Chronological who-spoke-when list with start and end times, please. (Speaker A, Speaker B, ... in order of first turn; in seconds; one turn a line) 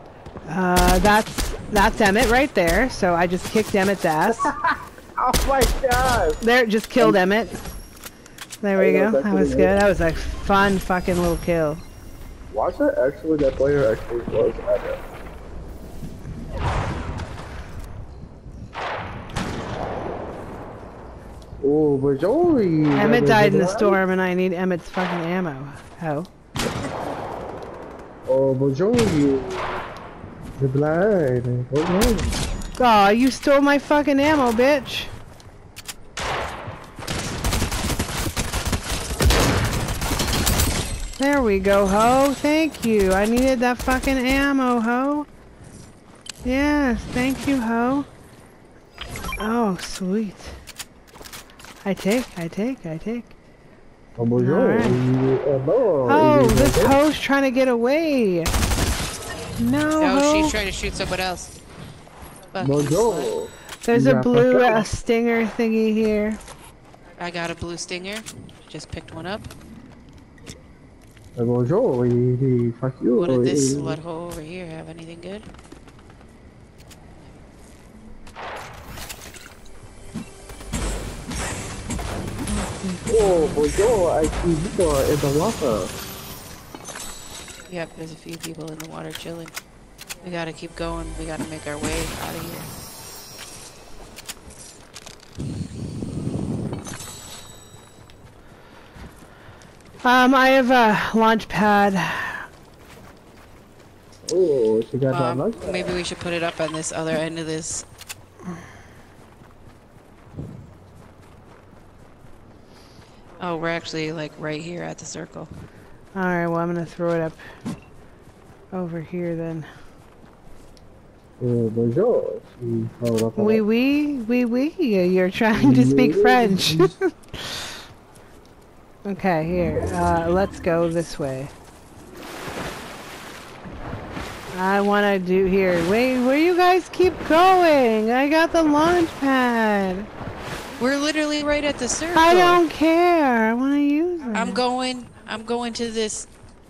Speaker A: 0.5-4.5
Speaker B: 4.3-6.4
Speaker A: 6.4-7.6
Speaker A: 8.6-11.8
Speaker B: 8.8-9.8
Speaker B: 12.5-15.0
Speaker B: 21.6-24.0
Speaker A: 22.9-26.3
Speaker B: 28.3-29.8
Speaker B: 30.6-32.4
Speaker A: 32.8-35.1
Speaker A: 41.2-45.3
Speaker A: 46.5-48.1
Speaker A: 49.4-50.6
Speaker A: 51.8-53.4
Speaker B: 54.2-57.0
Speaker A: 54.4-55.0
Speaker A: 56.1-58.5
Speaker A: 59.6-60.5
Speaker C: 60.0-61.6
Speaker C: 62.5-63.3
Speaker B: 62.6-64.9
Speaker A: 63.9-66.4
Speaker C: 67.2-69.5
Speaker B: 71.4-74.0
Speaker C: 73.2-75.5
Speaker A: 82.5-83.6
Speaker B: 83.1-85.9
Speaker C: 87.7-89.5
Speaker C: 90.2-92.7
Speaker A: 100.0-102.5
Speaker B: 104.3-106.0
Speaker C: 105.1-107.8
Speaker C: 113.4-115.5
Speaker A: 116.2-117.4
Speaker A: 118.7-119.7
Speaker B: 121.4-123.6
Speaker A: 123.4-127.8
Speaker B: 125.5-127.0
Speaker A: 129.1-131.5
Speaker A: 134.5-140.1
Speaker C: 140.8-142.6
Speaker A: 142.2-144.6
Speaker C: 144.3-146.3